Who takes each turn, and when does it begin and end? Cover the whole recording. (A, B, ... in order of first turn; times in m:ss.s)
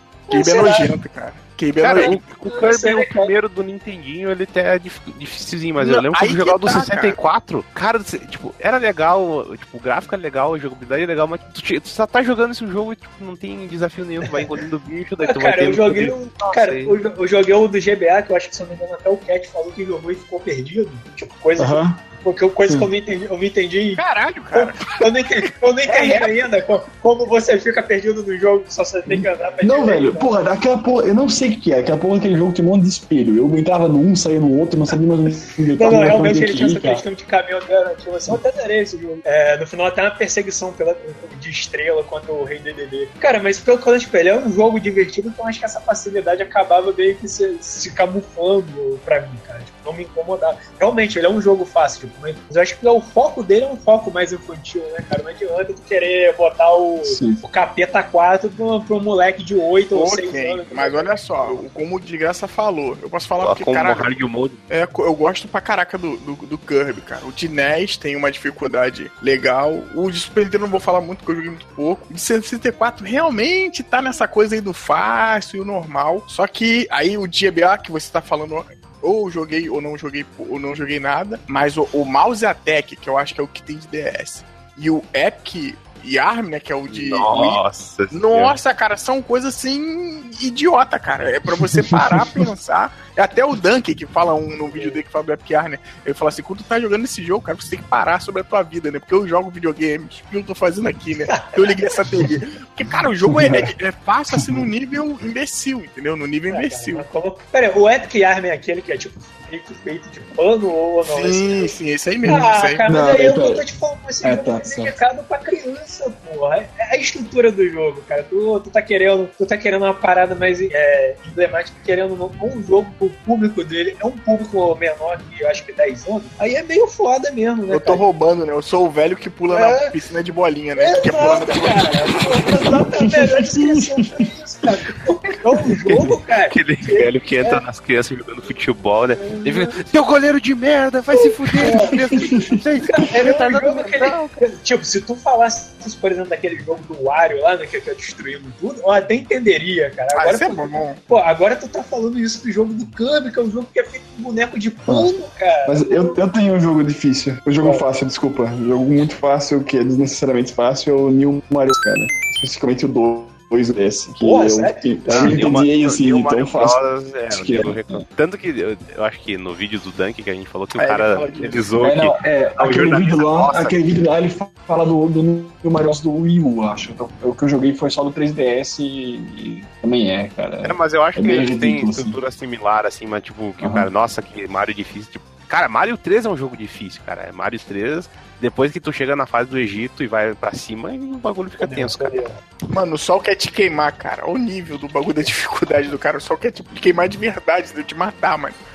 0:00.3-0:00.9 A
0:00.3-0:02.2 B
0:01.8-0:17.0 C
0:02.0-0:03.3 A
0:05.8-0:07.2 B
0:14.3-0:14.5 A
0:15.2-0:24.0 A
0:21.6-0:22.0 D
0:24.0-0:25.0 B
0:24.5-0:30.3 A
0:25.9-0:26.4 B
0:29.1-0:37.0 D
0:35.8-1:01.6 A
0:57.0-0:57.4 D
0:59.9-1:04.1 B
1:03.4-1:04.6 C
1:04.7-1:27.6 B
1:26.9-1:28.6 C
1:28.1-1:47.0 B
1:31.9-1:32.5 D
1:34.7-1:35.0 A
1:41.3-1:42.0 A
1:43.2-1:43.7 D
1:44.3-1:44.7 D
1:46.5-1:51.8 A
1:51.0-1:52.8 B
1:52.2-1:53.6 D
1:52.3-2:08.0 A
1:54.2-1:55.0 D
2:07.7-2:12.0 B
2:09.5-2:09.9 A
2:10.8-2:17.6 A
2:13.2-2:14.2 D
2:16.5-2:24.4 C
2:19.2-2:19.8 A
2:21.1-2:22.0 A
2:21.6-2:22.6 D
2:22.9-2:36.2 A
2:30.1-2:31.0 B
2:35.6-2:48.0 D
2:44.2-2:45.6 A
2:45.1-2:53.8 C
2:50.8-2:51.7 B
2:51.8-3:02.2 D
3:00.6-3:12.3 C
3:03.6-3:03.9 D
3:11.6-3:12.4 A
3:12.7-3:18.6 B